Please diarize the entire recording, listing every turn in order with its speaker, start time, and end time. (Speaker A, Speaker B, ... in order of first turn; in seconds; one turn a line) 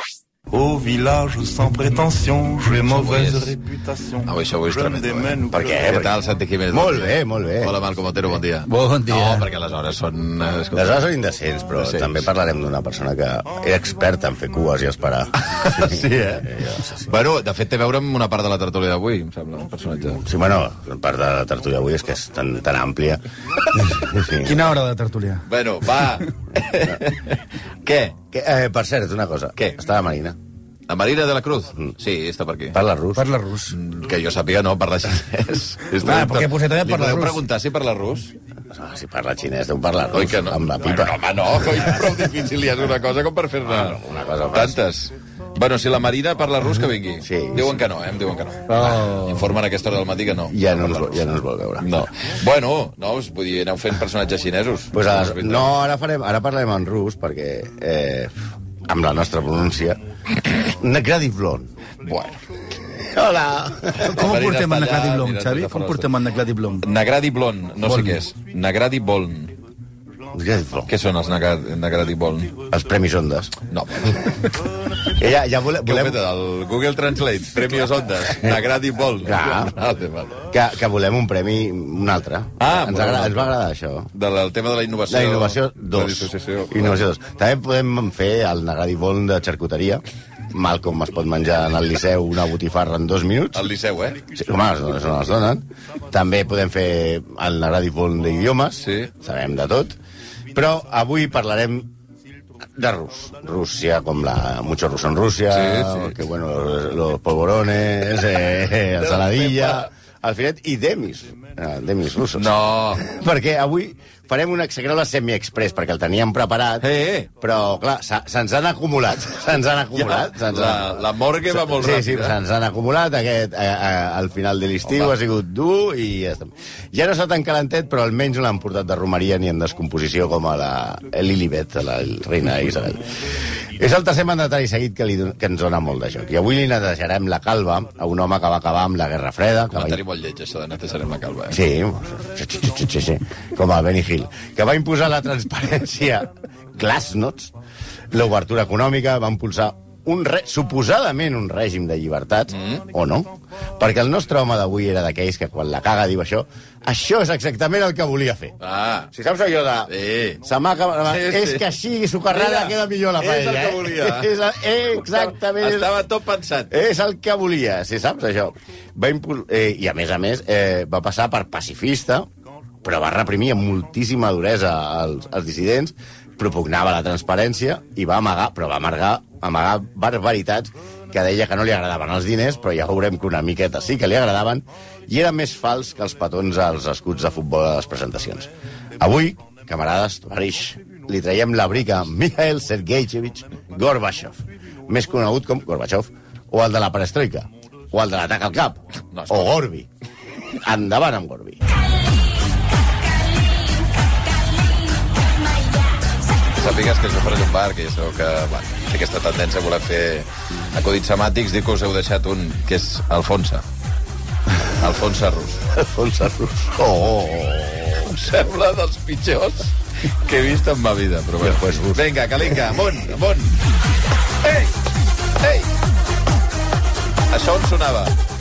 Speaker A: 0.5-5.9
Speaker B: 2.9-3.5
Speaker B: 4.2-11.1
Speaker C: 5.5-6.2
Speaker C: 6.7-7.8
Speaker D: 8.7-9.5
Speaker C: 10.7-16.9
Speaker B: 11.8-12.2
Speaker B: 15.4-20.2
Speaker C: 20.2-23.2
Speaker C: 23.8-24.6
Speaker D: 24.4-25.5
Speaker B: 25.5-28.2
Speaker C: 28.3-30.4
Speaker B: 30.9-32.8
Speaker C: 32.7-33.2
Speaker D: 33.1-33.8
Speaker B: 33.7-38.3
Speaker D: 36.0-37.4
Speaker C: 38.7-41.2
Speaker B: 40.1-44.0
Speaker C: 43.7-44.8
Speaker B: 44.5-51.3
Speaker C: 47.2-47.7
Speaker D: 48.7-49.4
Speaker C: 50.5-51.9
Speaker B: 51.8-55.7
Speaker C: 54.9-58.3
Speaker C: 58.9-60.0
Speaker C: 60.5-61.7
Speaker B: 62.0-62.4
Speaker C: 62.9-64.2
Speaker D: 64.0-66.9
Speaker B: 64.0-66.1
Speaker B: 66.8-69.5
Speaker D: 67.8-68.2
Speaker C: 70.3-70.9
Speaker B: 70.9-72.6
Speaker C: 72.7-73.6
Speaker B: 73.7-74.5
Speaker C: 75.0-76.2
Speaker B: 75.8-80.5
Speaker C: 79.2-79.8
Speaker C: 80.5-84.1
Speaker B: 82.6-83.5
Speaker B: 84.2-87.0
Speaker C: 85.1-93.7
Speaker B: 93.5-94.2
Speaker C: 94.3-100.0
Speaker B: 98.8-99.1
Speaker C: 100.5-101.9
Speaker C: 102.8-140.0
Speaker B: 105.5-106.1
Speaker B: 109.0-109.9
Speaker B: 112.3-113.1
Speaker B: 116.8-117.3
Speaker B: 120.0-122.4
Speaker B: 124.9-125.1
Speaker B: 139.7-141.6
Speaker C: 141.5-147.5
Speaker C: 148.1-158.5
Speaker B: 152.5-152.8
Speaker B: 158.6-159.1
Speaker C: 159.1-165.9
Speaker B: 159.9-160.4
Speaker B: 161.1-161.7
Speaker B: 162.3-164.3
Speaker B: 165.1-166.7
Speaker C: 166.7-172.3
Speaker C: 172.8-199.9
Speaker B: 199.1-199.5
Speaker C: 200.5-201.6
Speaker B: 206.5-213.6
Speaker B: 214.6-215.6
Speaker C: 215.7-218.2
Speaker B: 218.1-223.6
Speaker C: 221.4-222.1
Speaker B: 224.4-224.7
Speaker B: 225.4-225.7
Speaker B: 227.3-228.1